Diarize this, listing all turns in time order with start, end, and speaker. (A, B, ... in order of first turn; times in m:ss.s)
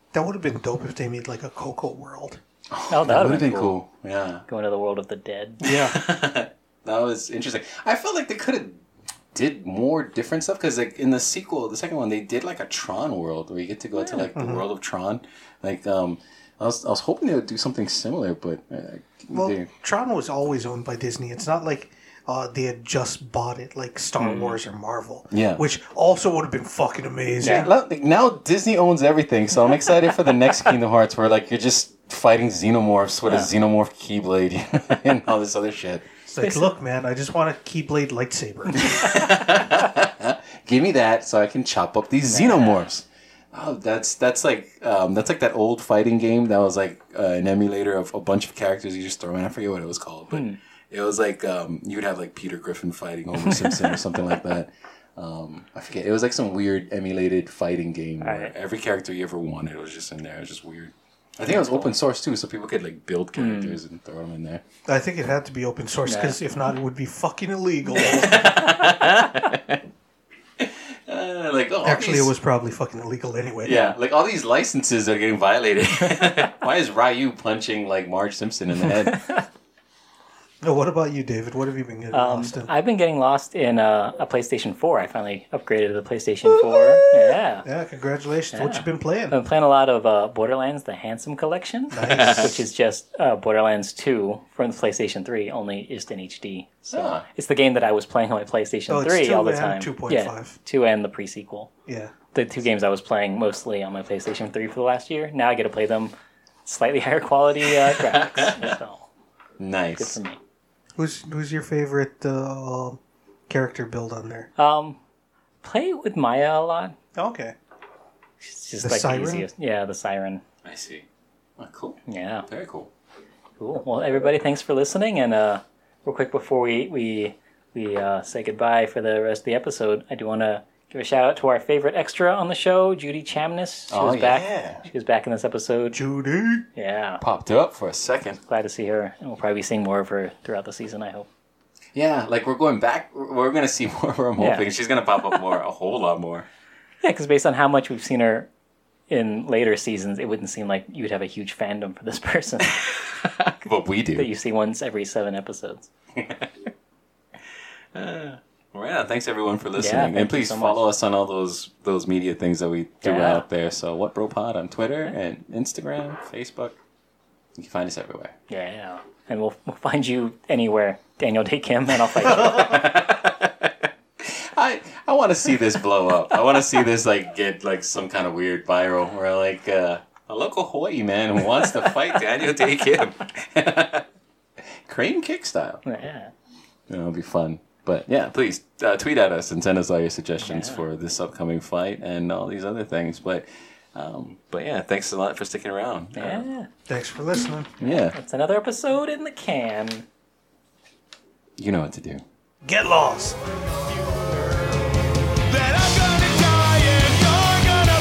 0:00.1-0:02.4 A
0:02.7-0:04.4 B
0:02.9-0:03.7 C
0:04.5-0:05.7 C
0:05.6-0:19.7 B
0:05.6-0:06.0 A
0:14.0-0:14.3 C
0:14.3-0:14.6 A
0:19.3-0:27.7 A
0:24.2-0:24.6 C
0:25.3-0:25.6 B
0:27.4-0:27.7 C
0:27.4-0:36.0 B
0:33.2-0:33.5 C
0:36.3-0:39.0 A
0:36.4-0:36.7 C
0:38.7-1:04.6 B
0:42.2-0:42.8 C
0:50.3-0:50.6 C
0:53.4-0:53.9 C
0:58.2-0:58.5 C
1:01.5-1:01.9 C
1:03.4-1:03.8 C
1:04.8-1:08.6 A
1:06.0-1:06.4 C
1:08.0-1:08.8 C
1:08.0-1:09.8 B
1:10.6-1:12.3 B
1:11.8-1:14.0 A
1:13.6-1:19.3 B
1:19.1-1:19.4 C
1:20.6-1:22.7 A
1:22.1-1:27.6 C
1:27.6-1:29.4 A
1:28.5-1:41.7 C
1:31.9-1:32.6 A
1:32.1-1:32.5 B
1:36.9-1:37.2 B
1:38.9-1:40.6 A
1:41.9-1:42.1 A
1:42.3-1:46.1 C
1:46.6-1:49.1 C
1:48.0-1:48.7 B
1:49.6-1:50.2 B
1:50.0-1:50.4 C
1:51.0-1:54.5 A
1:54.6-1:55.0 C
1:55.6-1:57.0 C
1:57.2-1:57.5 A
1:58.4-2:00.4 C
1:58.8-1:59.5 A
2:00.6-2:01.1 B
2:01.6-2:02.9 B
2:02.1-2:02.5 C
2:03.6-2:16.0 C
2:13.9-2:14.8 B
2:15.9-2:16.6 A
2:16.7-2:17.2 C
2:17.2-2:18.4 B
2:18.5-2:21.3 C
2:21.9-2:26.4 B
2:24.4-2:24.6 C
2:27.0-2:28.5 C
2:29.1-2:32.8 C
2:32.8-2:34.3 B
2:34.1-2:35.9 C
2:36.1-2:36.7 B
2:37.9-2:46.8 B
2:39.8-2:40.8 C
2:43.0-2:43.4 C
2:47.6-2:48.3 B
2:48.5-2:52.8 C
2:52.1-3:04.1 B
3:01.6-3:02.0 C
3:04.6-3:05.8 B
3:05.8-3:06.3 C
3:06.9-3:16.4 B
3:10.4-3:10.8 C
3:16.2-3:16.7 C
3:16.9-3:17.7 A
3:17.8-3:18.2 B
3:17.8-3:20.0 C
3:21.6-3:22.2 B
3:22.6-3:24.4 A
3:25.6-3:27.2 B